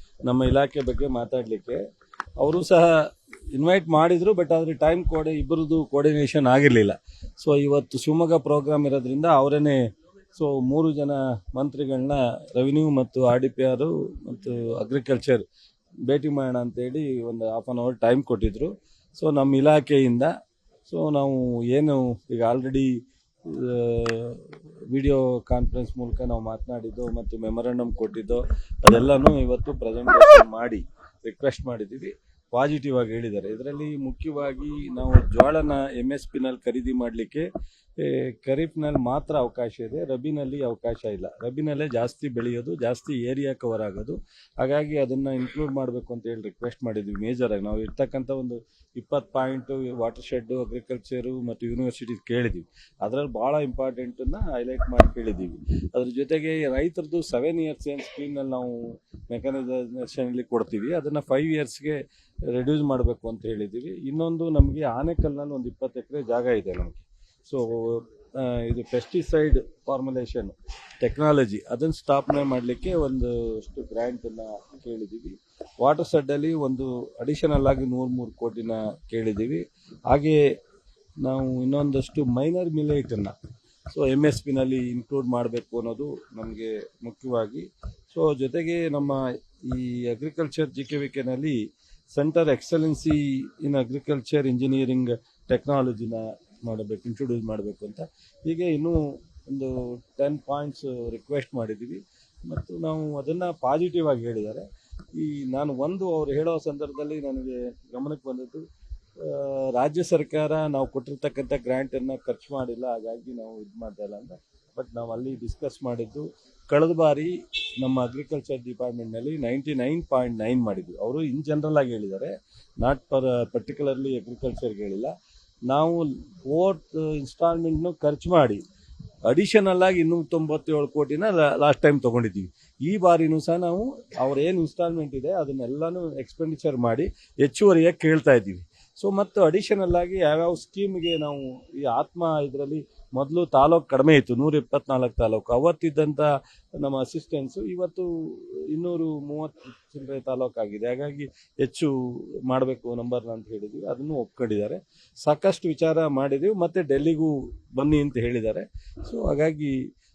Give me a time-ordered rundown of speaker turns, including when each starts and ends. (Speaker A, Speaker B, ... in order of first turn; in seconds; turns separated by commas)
Speaker A: 0.2-1.8, Speaker A: 2.4-15.5, Speaker A: 16.1-20.3, Speaker A: 20.9-22.9, Speaker A: 23.4-62.0, Speaker A: 62.5-80.4, Speaker A: 81.2-83.3, Speaker A: 83.9-91.6, Speaker A: 92.1-108.7, Speaker A: 109.2-125.1, Speaker A: 125.7-128.6, Speaker A: 129.3-159.8